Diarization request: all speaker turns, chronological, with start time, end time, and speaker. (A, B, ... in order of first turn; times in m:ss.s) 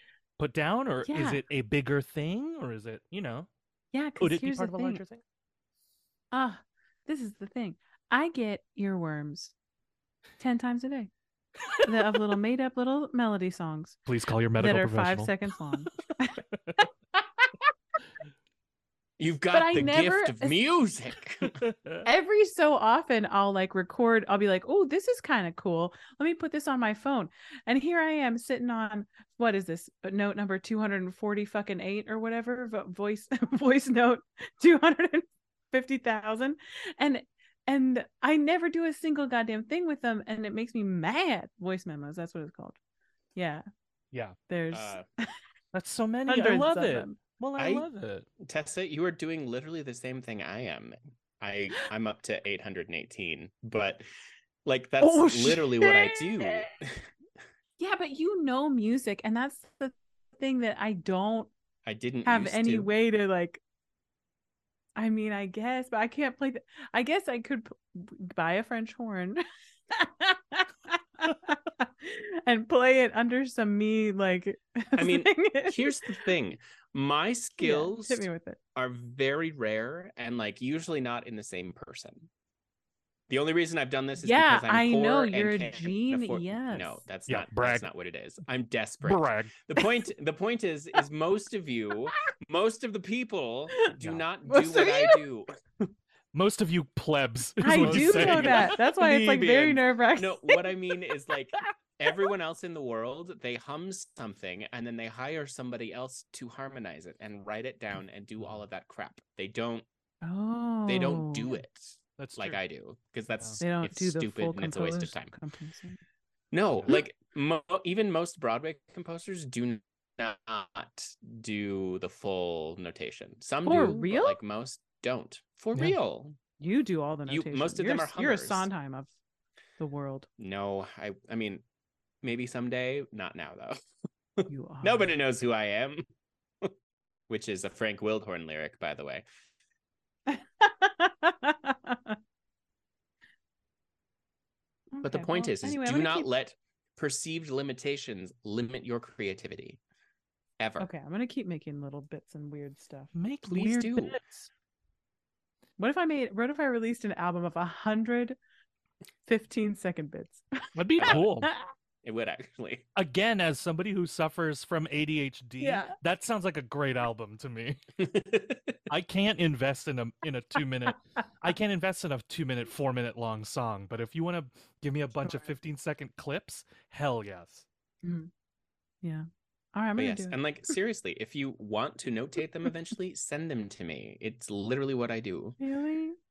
0:00.4-0:03.5 A
0:01.0-0:01.4 B
0:03.9-0:05.0 B
0:04.2-0:05.2 A
0:06.3-0:09.5 B
0:10.4-0:11.1 B
0:11.8-0:14.0 B
0:14.0-0:15.3 A
0:14.6-0:17.7 B
0:19.2-0:21.6 C
0:19.5-0:20.6 B
0:21.5-0:22.0 A
0:22.0-0:42.8 B
0:43.3-0:43.6 B
0:44.5-0:45.3 B
0:44.7-0:45.0 C
0:45.7-0:48.3 A
0:46.3-0:47.2 B
0:47.6-0:47.9 C
0:48.4-0:54.0 C
0:54.6-0:57.1 C
0:55.0-0:56.6 B
0:57.8-1:01.5 B
1:01.8-1:02.9 C
1:02.2-1:03.6 B
1:05.0-1:16.3 B
1:15.0-1:22.3 C
1:17.6-1:18.6 B
1:23.3-1:35.9 C
1:24.2-1:27.0 B
1:27.3-1:27.9 A
1:29.0-1:29.5 A
1:34.4-1:35.2 B
1:36.3-1:38.8 A
1:37.6-1:40.7 B
1:37.6-1:49.8 C
1:50.2-1:51.5 B
1:50.9-1:55.3 C
1:52.2-1:52.6 A
1:53.6-1:56.0 B
1:56.5-2:06.4 C
2:03.6-2:04.4 B
2:06.6-2:09.1 B
2:07.3-2:08.7 C
2:09.8-2:10.3 B
2:10.4-2:11.6 C
2:12.2-2:13.8 C
2:14.4-2:16.0 C
2:14.5-2:15.1 B
2:17.3-2:19.2 C
2:20.3-2:22.2 B
2:24.9-2:26.3 B
2:25.0-2:29.8 C
2:30.6-2:30.9 C
2:30.8-2:33.1 B
2:33.1-2:34.5 A
2:33.5-2:34.2 C
2:35.8-2:38.4 B
2:39.2-2:40.4 B
2:40.7-2:41.5 A
2:41.0-2:41.7 B
2:42.0-2:42.9 C
2:43.0-2:47.8 A
2:45.6-2:46.0 B
2:48.0-2:48.8 C
2:48.9-2:57.6 A
2:55.2-2:55.5 B
2:58.0-2:58.3 B
2:59.0-3:00.4 B
3:00.0-3:05.6 C
3:05.6-3:06.2 B